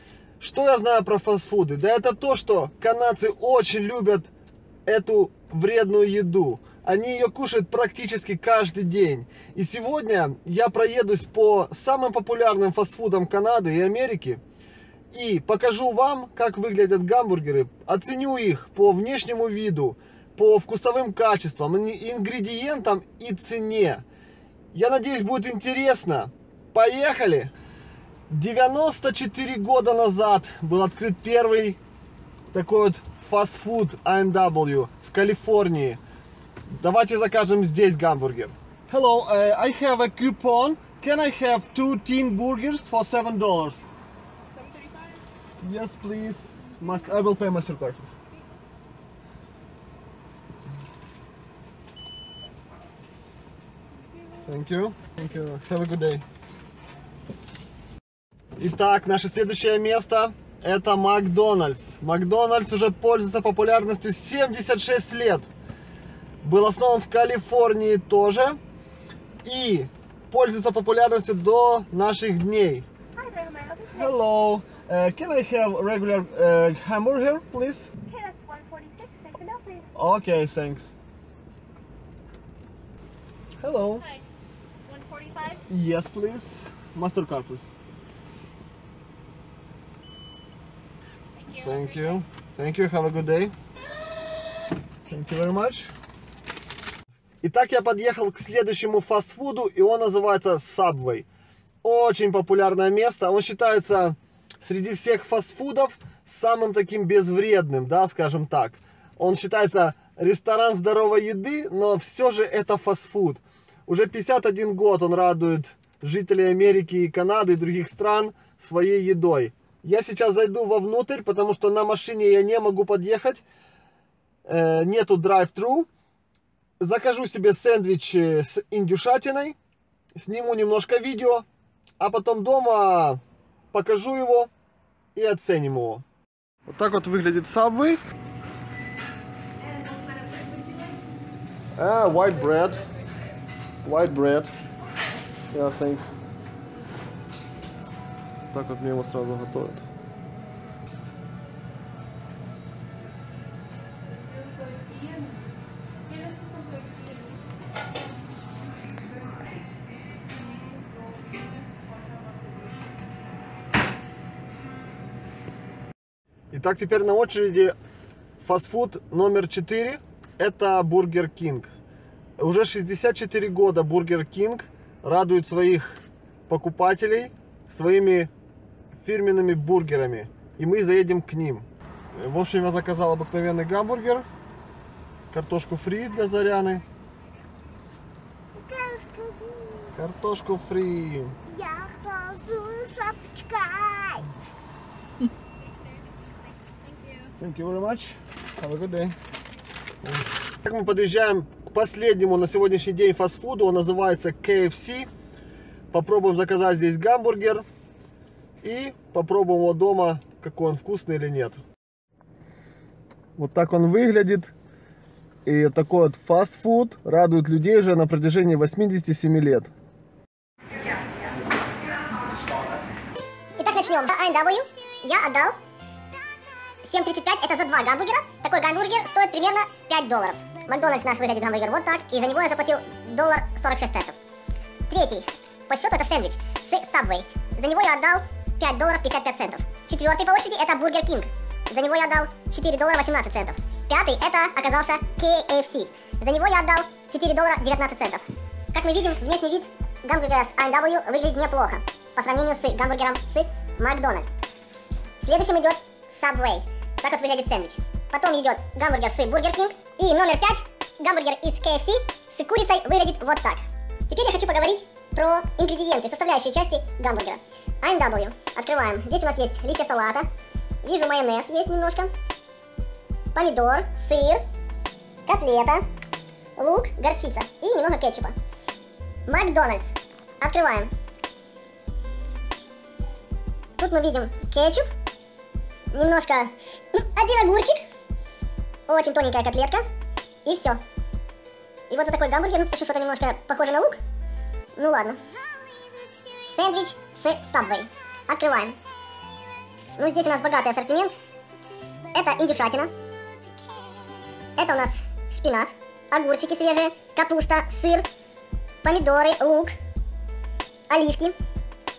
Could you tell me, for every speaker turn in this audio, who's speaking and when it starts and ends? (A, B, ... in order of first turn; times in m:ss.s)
0:00.4-0:04.3 A
0:04.8-0:14.4 A
0:15.1-0:24.0 A
0:24.7-0:27.5 A
0:28.3-0:31.8 A
0:32.5-0:36.0 A
0:36.7-0:43.9 A
0:44.6-0:45.1 B
0:45.6-0:48.1 A
0:54.4-0:56.2 A
0:58.6-1:05.5 A
1:06.4-1:08.6 A
1:09.4-1:12.9 A
1:13.8-1:17.9 A
1:18.4-1:19.4 B
1:19.9-1:21.0 A
1:23.6-1:24.0 A
1:24.8-1:25.6 B
1:25.7-1:27.7 A
1:31.3-1:32.2 B
1:31.6-1:33.5 A
1:35.1-1:35.9 A
1:37.4-1:41.3 A
1:41.8-2:03.4 A
2:04.4-2:05.9 A
2:06.8-2:09.6 A
2:10.2-2:11.4 A
2:12.0-2:13.2 A
2:13.7-2:14.5 A
2:15.1-2:16.0 A
2:16.7-2:18.0 A
2:21.8-2:22.9 A
2:23.8-2:24.5 A
2:25.5-2:26.2 A
2:28.5-2:29.8 A
2:34.2-2:35.4 B
2:36.0-2:37.4 B
2:40.2-2:43.0 B
2:46.5-2:47.7 A
2:48.4-2:51.7 A
2:52.4-2:58.3 A
2:59.0-3:04.3 A
3:05.3-3:06.8 A
3:08.6-3:09.9 C
3:09.9-3:11.4 A
3:11.6-3:14.2 C
3:16.9-3:17.3 B
3:17.4-3:19.2 A
3:20.0-3:25.1 A
3:25.9-3:27.7 A
3:28.6-3:31.6 A
3:33.4-3:34.5 A
3:35.4-3:39.7 A
3:43.6-3:45.5 D
3:46.8-3:54.2 D
3:54.9-4:14.3 D
4:15.2-4:30.3 D
4:30.8-4:32.1 D
4:33.3-4:34.4 D
4:35.2-4:35.8 D
4:36.6-4:38.3 D
4:39.3-4:39.9 D
4:40.4-4:40.9 D
4:43.8-4:44.8 D
4:45.9-4:47.8 D
4:48.9-4:49.8 D
4:50.4-4:50.8 D
4:51.9-4:54.0 D
4:54.8-4:55.2 D
4:56.4-4:58.8 D
5:00.0-5:01.1 D
5:02.1-5:02.9 D
5:04.6-5:08.1 D
5:08.8-5:09.7 D
5:10.9-5:11.3 D